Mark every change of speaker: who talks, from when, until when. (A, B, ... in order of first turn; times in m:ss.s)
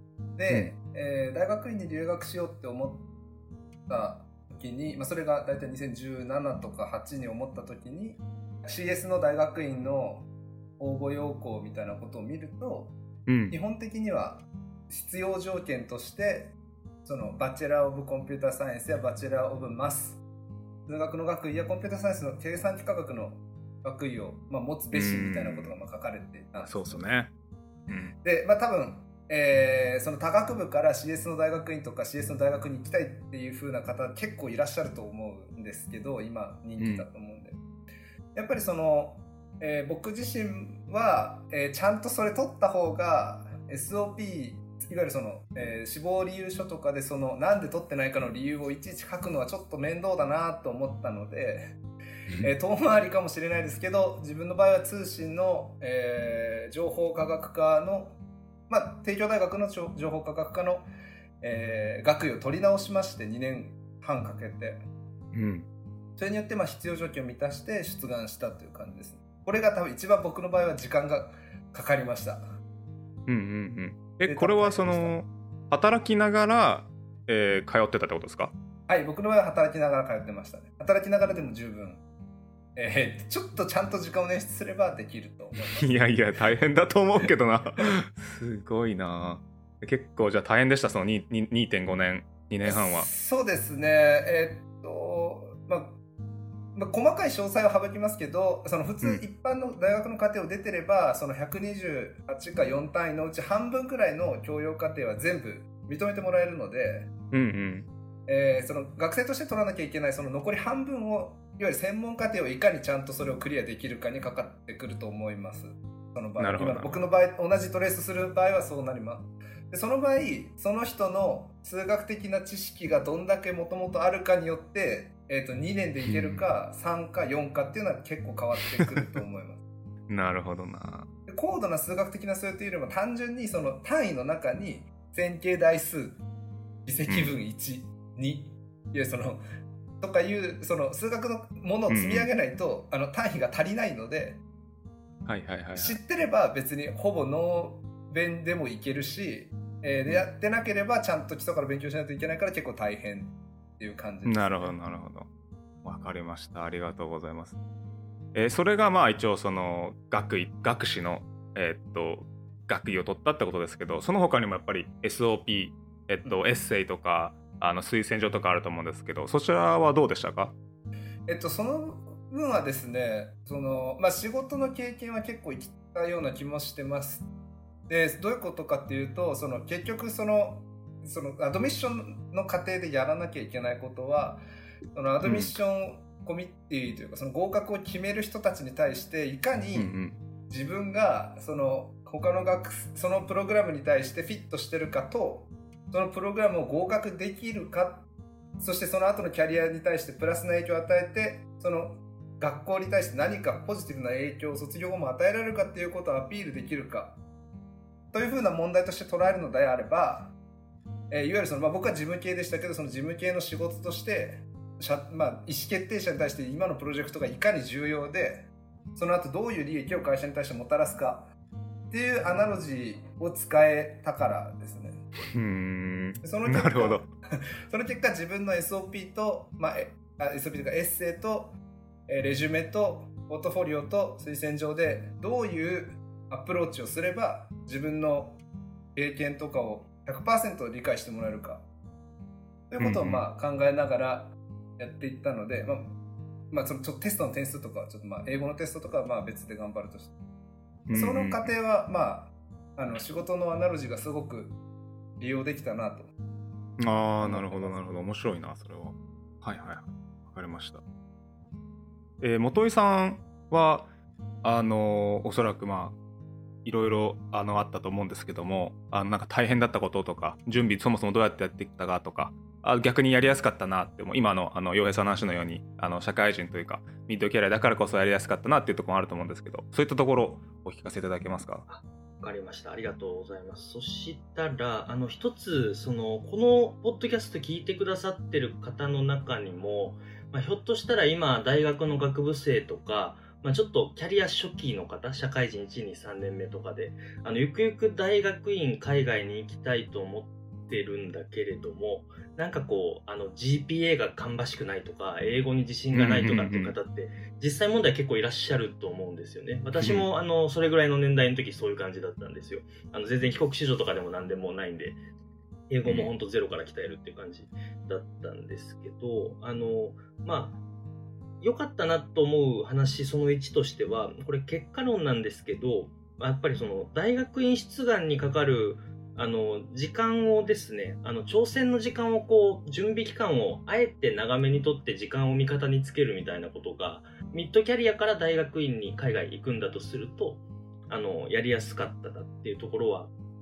0:00.4-0:03.1 A
0:03.9-0:10.3 A
0:10.8-0:13.0 A
0:13.3-0:13.6 B
0:13.5-0:20.2 A
0:20.9-0:27.0 A
0:24.9-0:25.8 B
0:26.6-0:27.3 B
0:27.9-0:28.2 B
0:28.2-0:37.6 A
0:36.8-0:37.1 B
0:38.4-0:51.8 A
0:52.4-0:58.2 A
0:58.7-1:00.9 A
1:01.4-1:04.8 A
1:05.3-1:05.7 B
1:06.2-1:12.6 A
1:13.3-1:18.5 B
1:14.2-1:15.2 A
1:18.9-1:22.0 A
1:22.8-1:25.9 A
1:25.8-1:33.1 B
1:32.6-1:36.0 A
1:36.8-1:47.1 A
1:47.3-1:47.9 B
1:48.3-2:09.6 A
1:56.4-1:57.0 B
2:06.0-2:06.5 B
2:08.8-2:09.0 B
2:10.1-2:11.1 B
2:11.3-2:16.2 A
2:16.9-2:19.4 A
2:17.1-2:17.3 B
2:20.0-2:24.4 A
2:21.9-2:22.3 B
2:25.3-2:26.0 B
2:25.7-2:34.8 A
2:34.2-2:35.3 B
2:35.8-2:37.6 B
2:38.3-2:50.6 B
2:51.3-2:57.3 A
2:57.9-3:09.9 A
3:05.2-3:05.6 B
3:09.8-3:10.2 B
3:10.5-3:18.1 A
3:18.6-3:27.2 A
3:28.1-3:30.3 A
3:31.1-3:41.3 A
3:41.9-3:45.0 A
3:45.3-3:47.1 B
3:46.2-3:47.1 A
3:47.7-3:58.4 A
3:59.0-4:01.7 A
4:02.7-4:05.9 A
4:02.8-4:03.2 B
4:06.5-4:10.2 A
4:10.9-4:11.5 B
4:10.9-4:14.6 A
4:15.2-4:16.1 A
4:16.8-4:20.8 B
4:17.2-4:17.8 A
4:22.2-4:23.9 B
4:24.4-4:26.0 B
4:26.6-4:41.7 B
4:41.7-5:15.0 C
5:05.9-5:06.8 B
5:09.8-5:10.1 B
5:15.7-5:20.6 C
5:15.8-5:16.1 B
5:21.4-5:43.1 C